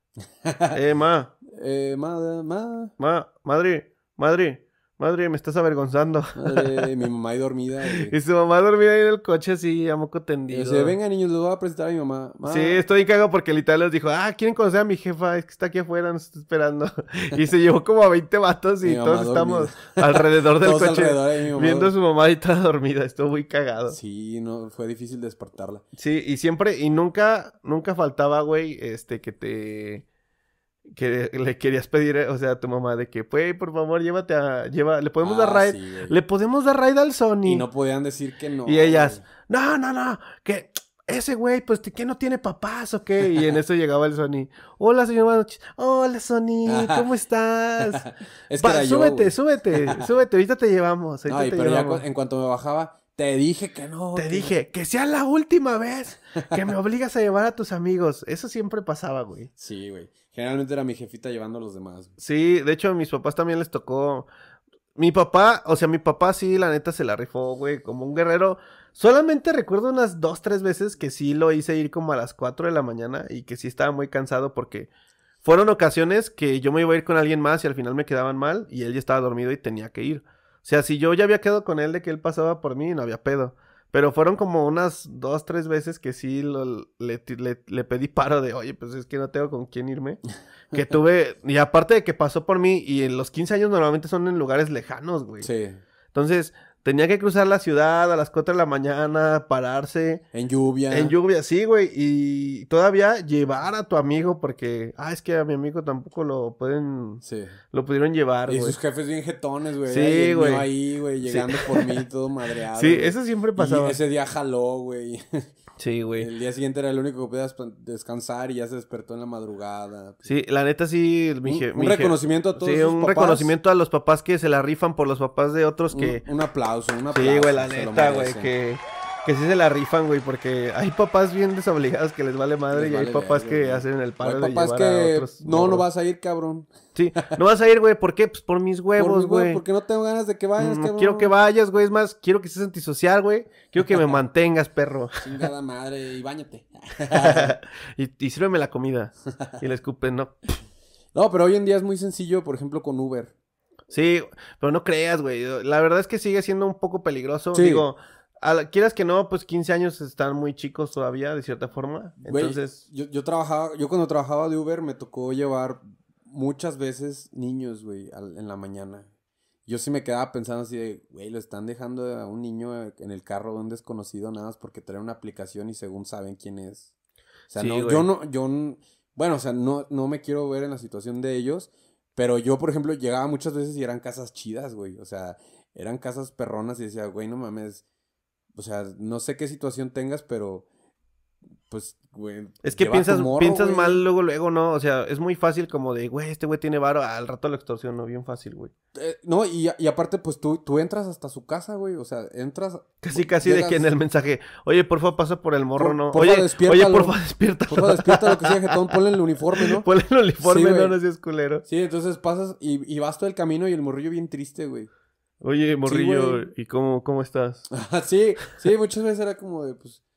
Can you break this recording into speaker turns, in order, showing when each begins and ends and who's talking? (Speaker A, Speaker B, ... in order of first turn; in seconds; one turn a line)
Speaker A: 0.4-0.8
Speaker B: 0.7-1.3
Speaker A: 1.5-2.9
Speaker B: 3.0-6.8
Speaker A: 6.3-8.1
Speaker B: 8.0-10.9
Speaker A: 10.5-12.8
Speaker B: 12.4-24.0
Speaker A: 18.8-21.9
Speaker A: 23.9-25.8
Speaker B: 25.9-30.0
Speaker B: 30.9-37.7
Speaker A: 35.2-36.2
Speaker A: 37.4-39.2
Speaker B: 38.6-48.0
Speaker A: 46.6-47.1
Speaker A: 47.8-50.0
Speaker B: 48.6-52.0
Speaker A: 51.3-54.5
Speaker B: 54.1-59.5
Speaker A: 59.6-62.1
Speaker B: 62.2-64.3
Speaker B: 65.0-74.9
Speaker B: 75.4-90.2
Speaker B: 90.7-95.5
Speaker A: 95.4-95.8
Speaker B: 96.1-100.2
Speaker A: 100.3-101.1
Speaker B: 100.9-108.8
Speaker A: 107.2-107.5
Speaker A: 108.5-115.5
Speaker B: 109.8-110.7
Speaker B: 111.2-112.0
Speaker B: 112.7-114.0
Speaker B: 115.8-116.3
Speaker A: 116.2-120.3
Speaker B: 120.2-126.2
Speaker A: 121.4-123.5
Speaker A: 125.9-128.5
Speaker B: 127.1-135.8
Speaker A: 132.7-137.3
Speaker B: 136.9-139.6
Speaker A: 139.0-141.3
Speaker B: 140.6-145.2
Speaker A: 145.2-147.6
Speaker B: 147.1-150.3
Speaker A: 151.1-153.3
Speaker B: 153.9-162.8
Speaker A: 157.5-157.9
Speaker A: 162.2-169.1
Speaker A: 169.7-176.9
Speaker A: 177.5-187.8
Speaker B: 177.5-178.1
Speaker A: 188.5-190.6
Speaker A: 191.7-194.0
Speaker B: 192.6-198.7
Speaker A: 198.9-203.9
Speaker B: 203.0-208.9
Speaker A: 205.8-209.9
Speaker B: 209.6-211.6
Speaker A: 210.4-210.9
Speaker A: 211.6-214.9
Speaker B: 215.4-217.6
Speaker A: 215.8-216.4
Speaker A: 217.7-220.0